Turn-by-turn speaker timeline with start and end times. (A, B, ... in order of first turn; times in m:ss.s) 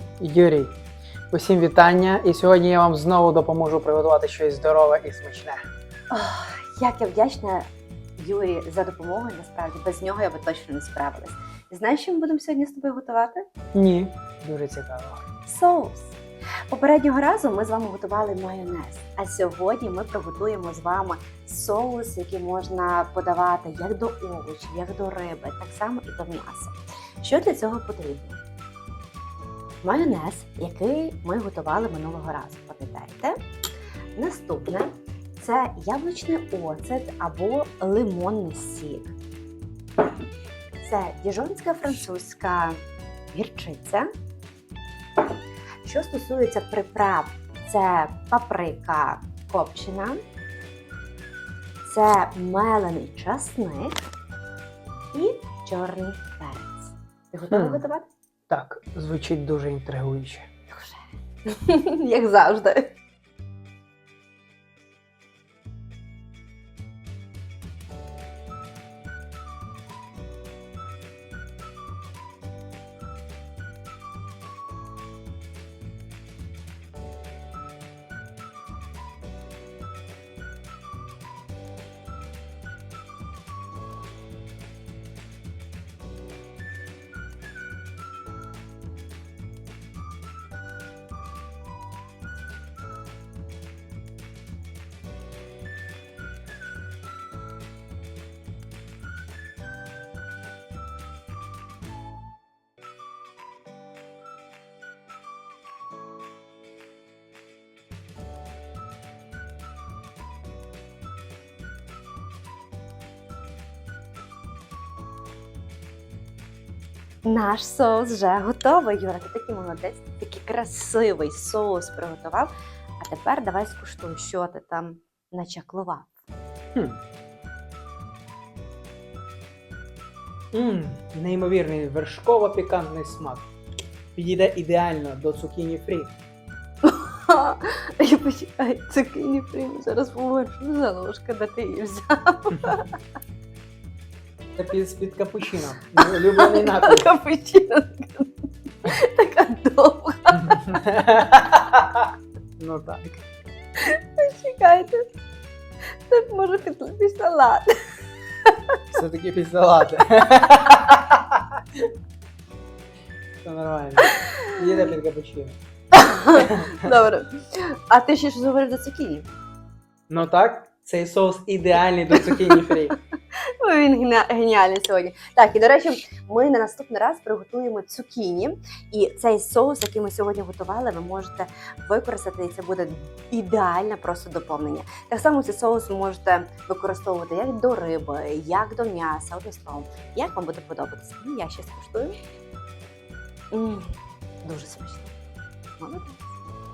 0:00.2-0:00.8 A
0:01.3-0:05.6 A
0:06.1-0:13.4 B
0:13.7-0:15.2 A
0:15.4-0:16.2 B
0:16.7-0:28.4 B
0:29.8-0:33.4 B
0:34.2-0:39.2 B
0:40.8-0:42.8 B
0:43.3-0:44.1 B
0:45.8-0:50.2 B
0:51.8-0:54.0 B
0:55.1-0:58.1 B
0:57.5-0:57.8 A
0:58.5-1:00.5 A
1:00.7-1:02.9 B
1:57.2-2:06.2 B
2:06.8-2:07.0 A
2:10.5-2:13.5 A
2:14.2-2:16.1 A
2:16.8-2:23.0 B
2:24.6-2:27.1 A
2:26.0-2:30.8 B
2:30.3-2:32.1 A
2:32.6-2:33.2 A
2:33.8-2:35.0 B
2:36.1-2:37.9 B
2:38.5-2:38.8 B
2:38.9-2:41.9 A
2:43.4-2:45.6 A
2:45.9-2:49.3 B
2:50.1-2:53.0 A
2:52.2-2:52.8 B
2:53.6-3:12.2 B
3:13.5-3:13.9 B
3:14.4-3:15.1 B
3:15.8-3:16.4 B